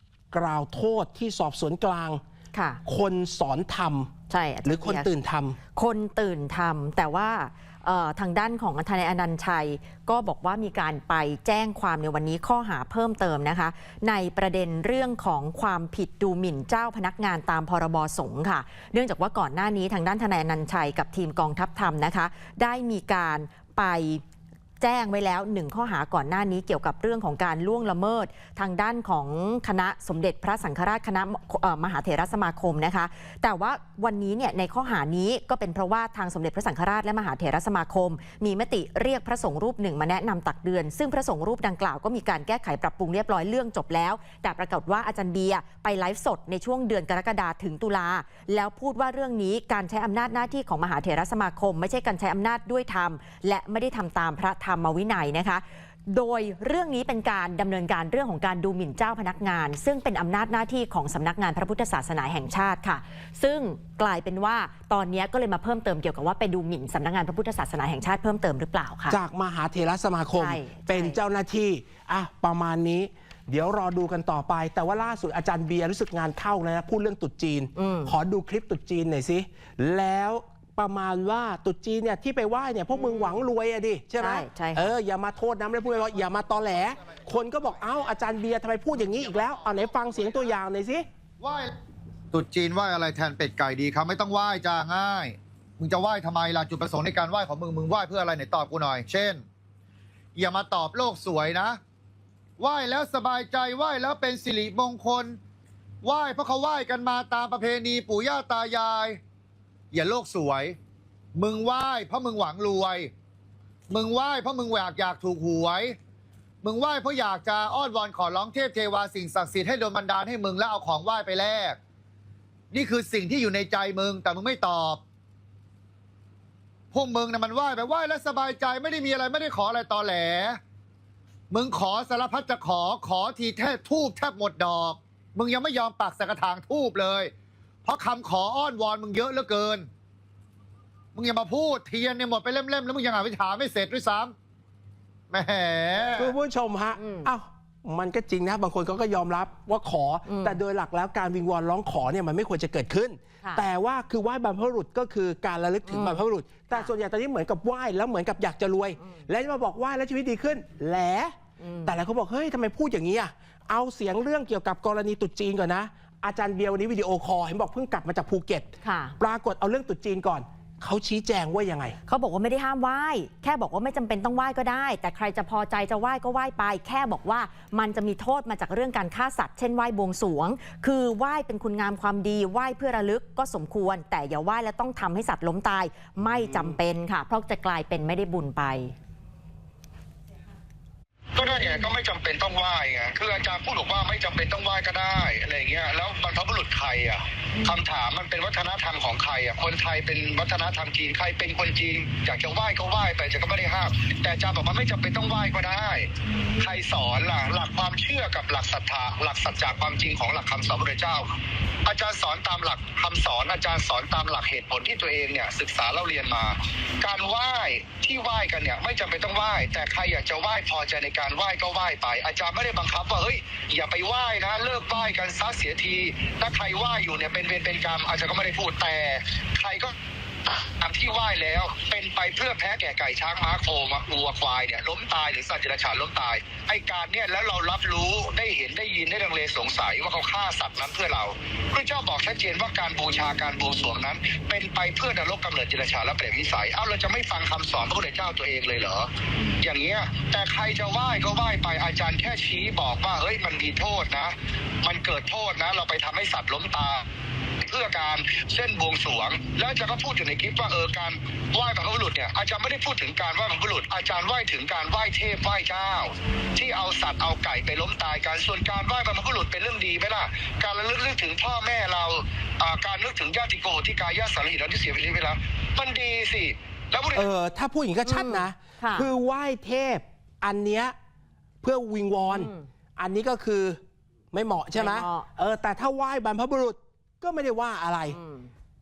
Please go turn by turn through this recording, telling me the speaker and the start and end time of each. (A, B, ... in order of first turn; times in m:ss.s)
0:00.3-0:02.2 A
0:02.5-0:02.8 B
0:02.8-0:04.1 A
0:04.3-0:05.1 B
0:04.6-0:05.6 A
0:05.8-0:24.2 B
0:24.8-1:09.2 B
1:09.1-1:31.0 A
1:10.4-1:11.2 B
1:17.8-1:18.1 B
1:22.9-1:23.4 B
1:24.2-1:24.9 B
1:31.4-1:31.7 C
1:32.3-1:39.4 C
1:40.4-1:41.8 C
1:42.6-1:45.4 C
1:46.0-1:49.2 C
1:49.9-1:50.8 C
1:51.4-1:53.1 C
1:53.9-1:56.0 C
1:56.6-2:01.8 C
2:02.7-2:05.0 C
2:06.9-2:10.6 C
2:11.5-2:17.3 C
2:17.8-2:19.9 C
2:21.2-2:24.3 C
2:25.3-2:26.3 C
2:26.2-2:52.0 A
2:27.0-2:27.3 B
2:30.3-2:30.6 B
2:35.9-2:36.2 B
2:41.6-2:42.0 B
2:48.8-2:49.2 B
2:52.1-3:09.0 B
3:11.4-3:31.3 D
3:26.3-3:26.7 B
3:31.9-3:49.9 D
3:50.8-4:17.0 D
4:17.6-4:37.3 D
4:37.1-4:41.0 A
4:38.0-4:39.1 B
4:41.6-4:43.8 A
4:42.3-4:42.7 B
4:44.3-4:48.2 A
4:44.8-4:45.3 B
4:48.1-4:48.5 B